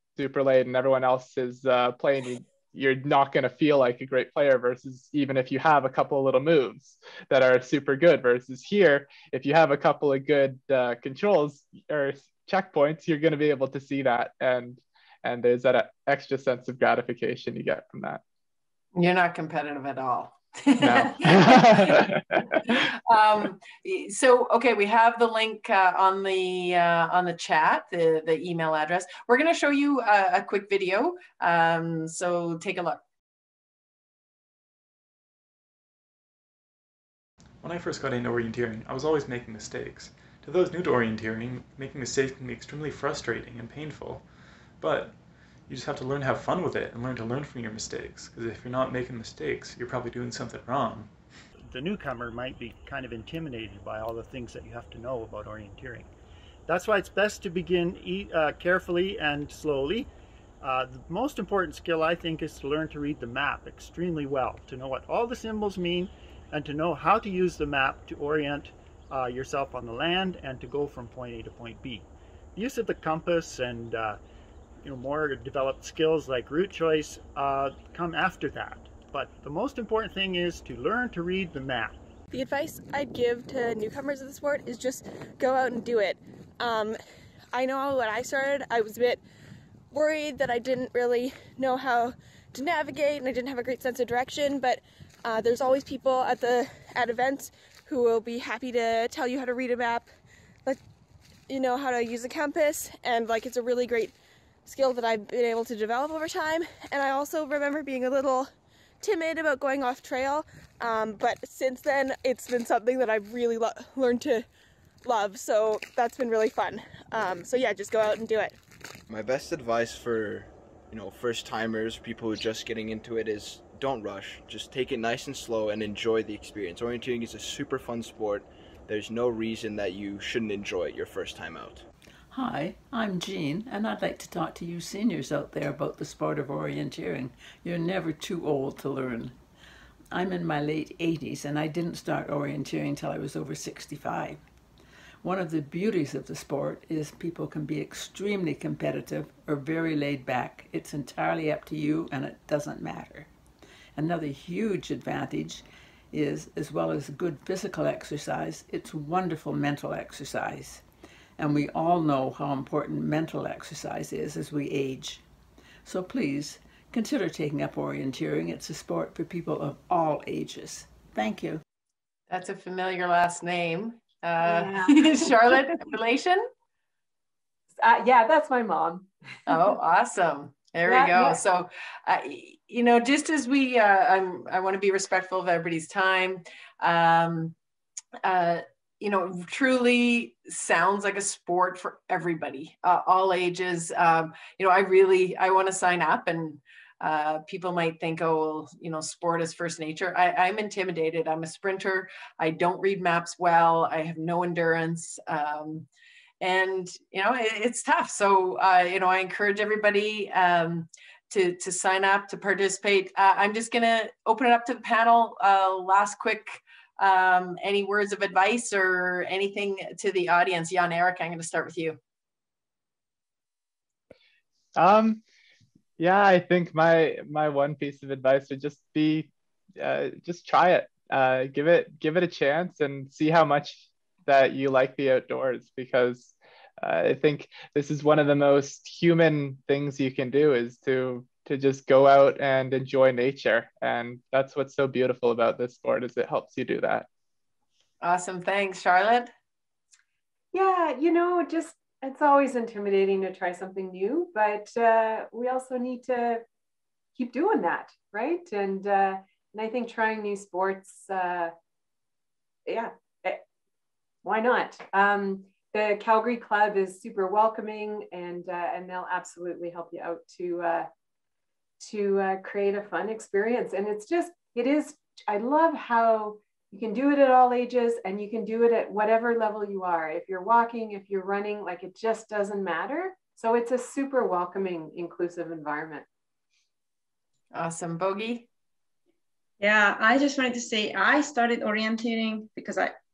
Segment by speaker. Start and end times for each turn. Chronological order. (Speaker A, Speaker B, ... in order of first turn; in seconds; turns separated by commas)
Speaker A: 0.2-18.2, Speaker B: 19.0-33.0, Speaker A: 20.8-22.8, Speaker C: 37.6-44.2, Speaker C: 44.8-45.1, Speaker C: 45.7-51.1, Speaker D: 51.6-56.1, Speaker D: 56.7-60.1, Speaker D: 60.6-74.2, Speaker D: 74.8-82.0, Speaker E: 82.3-87.0, Speaker E: 87.5-89.2, Speaker E: 89.9-100.1, Speaker E: 101.5-104.2, Speaker E: 104.7-108.5, Speaker E: 109.0-114.5, Speaker E: 115.0-118.6, Speaker F: 119.1-131.8, Speaker G: 132.3-139.3, Speaker G: 140.1-144.4, Speaker G: 145.2-153.3, Speaker G: 154.0-160.8, Speaker G: 161.4-165.2, Speaker G: 165.8-171.6, Speaker B: 172.3-176.4, Speaker H: 174.4-175.5, Speaker H: 177.8-179.5, Speaker B: 179.5-187.6, Speaker H: 180.9-181.4, Speaker B: 188.2-205.9, Speaker B: 206.4-222.0, Speaker A: 224.8-225.2, Speaker A: 226.0-247.1, Speaker B: 248.0-249.3, Speaker H: 250.5-256.4, Speaker H: 257.1-261.5, Speaker H: 262.7-263.4, Speaker H: 264.2-270.9, Speaker H: 271.8-286.1, Speaker B: 287.5-288.5, Speaker I: 289.6-292.9